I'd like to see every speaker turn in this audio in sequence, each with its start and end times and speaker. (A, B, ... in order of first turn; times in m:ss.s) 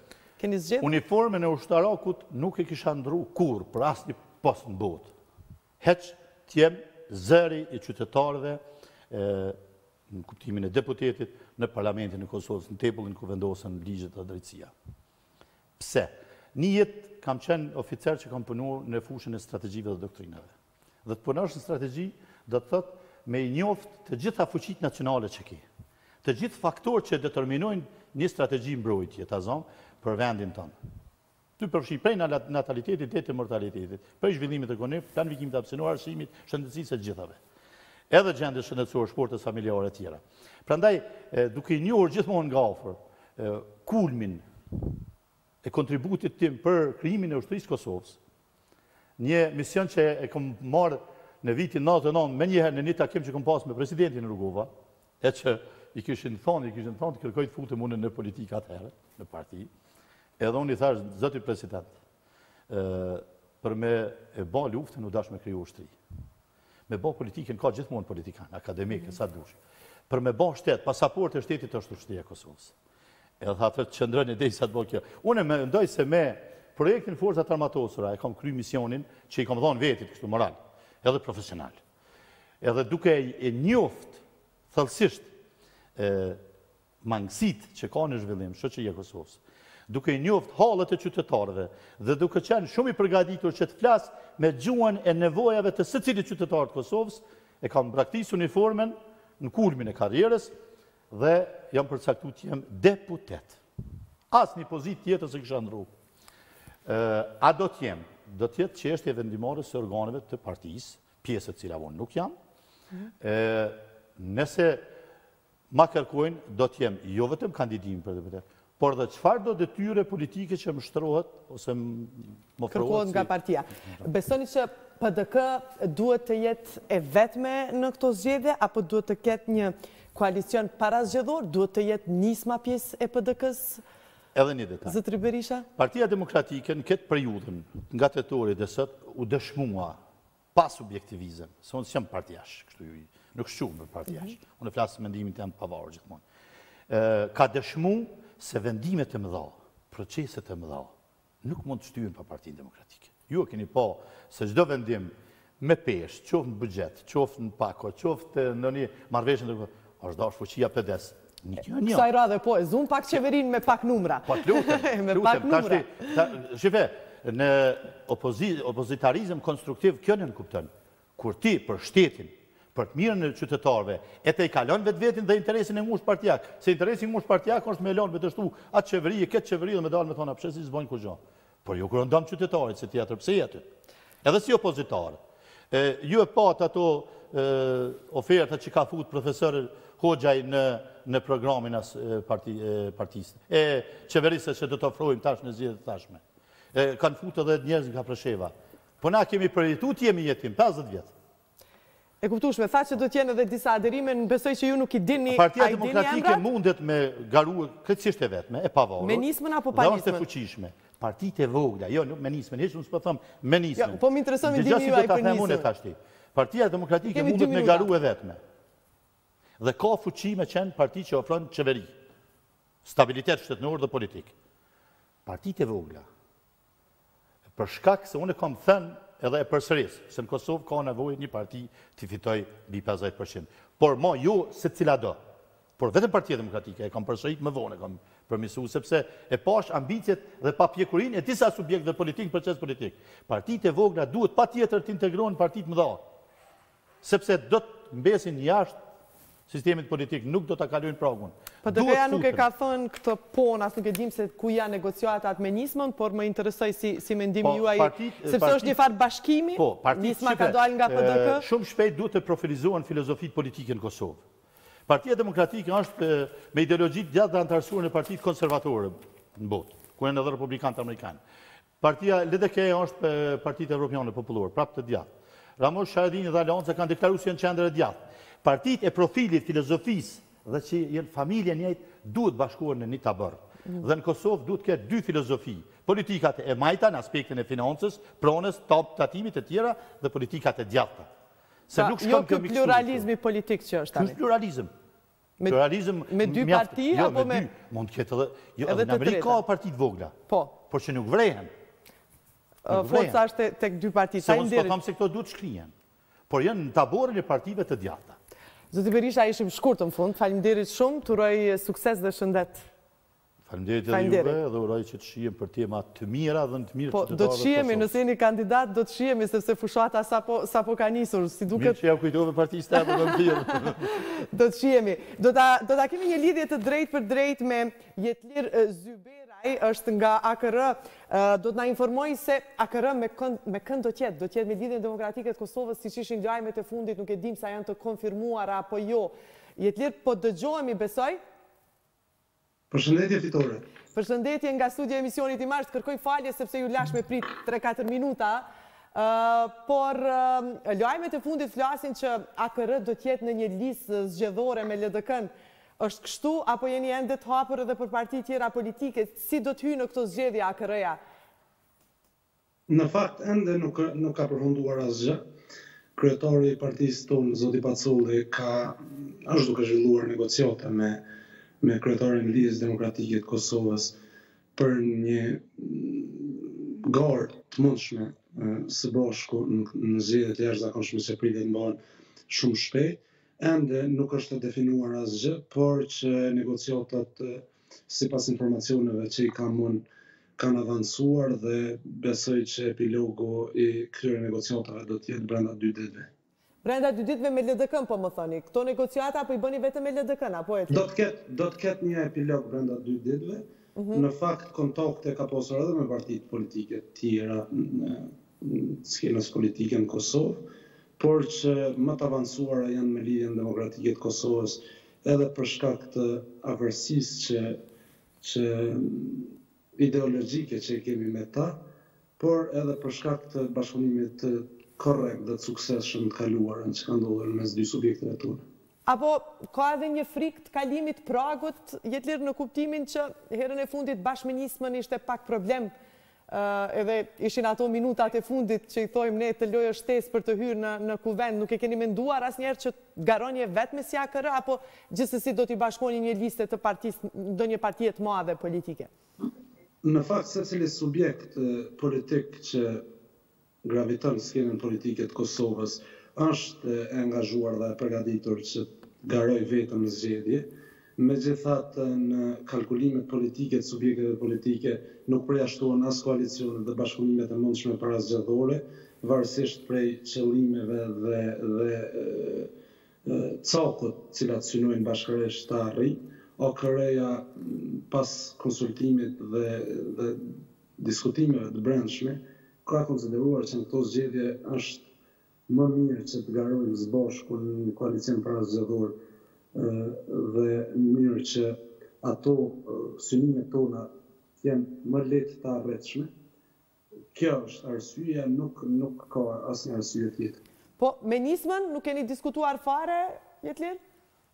0:00.4-0:00.9 A
0:00.8-0:05.1 B
0:05.8-0:09.6 B
0:10.1-0:14.7 B
0:15.8-0:20.5 B
0:21.0-0:25.6 B
0:26.2-0:30.7 B
0:31.6-0:37.4 B
0:38.1-0:44.4 B
0:45.6-0:48.2 B
0:49.2-0:54.7 B
0:55.2-0:59.7 B
1:00.4-1:01.9 B
1:02.7-1:05.9 B
1:06.9-1:09.6 B
1:10.1-1:12.7 B
1:13.4-1:21.8 B
1:22.6-1:25.3 B
1:26.0-1:26.4 B
1:27.0-1:40.5 B
1:41.1-1:43.6 B
1:44.3-1:45.9 B
1:46.8-1:52.3 B
1:53.2-1:54.8 B
1:55.7-2:03.3 B
2:02.7-2:13.8 A
2:14.3-2:15.0 B
2:14.8-2:15.7 A
2:15.8-2:20.0 B
2:20.5-2:26.2 B
2:26.9-2:42.1 B
2:41.8-2:46.1 A
2:44.3-3:03.7 B
3:04.2-3:05.2 B
3:05.7-3:16.2 B
3:16.7-3:21.1 B
3:22.2-3:26.4 A
3:25.3-3:38.4 B
3:29.0-3:30.2 A
3:33.8-3:35.7 A
3:37.1-3:37.9 A
3:39.6-3:41.9 B
3:42.8-3:44.3 B
3:45.2-3:46.0 B
3:47.5-3:55.2 B
3:55.8-4:06.0 B
4:07.0-4:08.8 B
4:09.5-4:12.4 B
4:11.6-4:21.4 A
4:17.4-4:18.8 B
4:19.6-4:24.2 B
4:24.9-4:31.2 B
4:31.8-4:51.1 B
4:51.7-4:53.1 B
4:51.7-4:54.2 A
4:53.9-4:54.7 B
4:55.4-4:57.4 A
4:55.5-5:01.5 B
4:58.6-4:59.4 A
5:00.3-5:00.5 A
5:02.6-5:04.8 A
5:02.7-5:03.2 B
5:04.2-5:05.7 B
5:06.3-5:08.2 B
5:08.7-5:12.7 A
5:13.4-5:17.9 B
5:13.9-5:14.4 A
5:16.9-5:21.8 A
5:21.5-5:23.9 B
5:22.8-5:41.2 A
5:42.7-5:43.6 C
5:43.9-6:01.0 A
6:02.7-6:05.2 C
6:06.0-6:11.0 C
6:11.6-6:13.9 C
6:14.5-6:21.8 C
6:22.3-6:29.8 C
6:30.4-6:36.1 C
6:36.6-6:40.8 A
6:40.7-6:50.4 C
6:43.8-6:44.0 A
6:51.0-6:57.6 C
6:58.2-7:01.6 C
7:02.2-7:08.4 C
7:08.8-7:15.7 A
7:16.3-7:28.9 A
7:29.8-7:32.8 C
7:33.6-7:52.5 C
7:53.0-8:04.8 C
8:05.5-8:09.0 C
8:09.5-8:16.1 C
8:17.1-8:20.4 C
8:20.8-8:23.8 A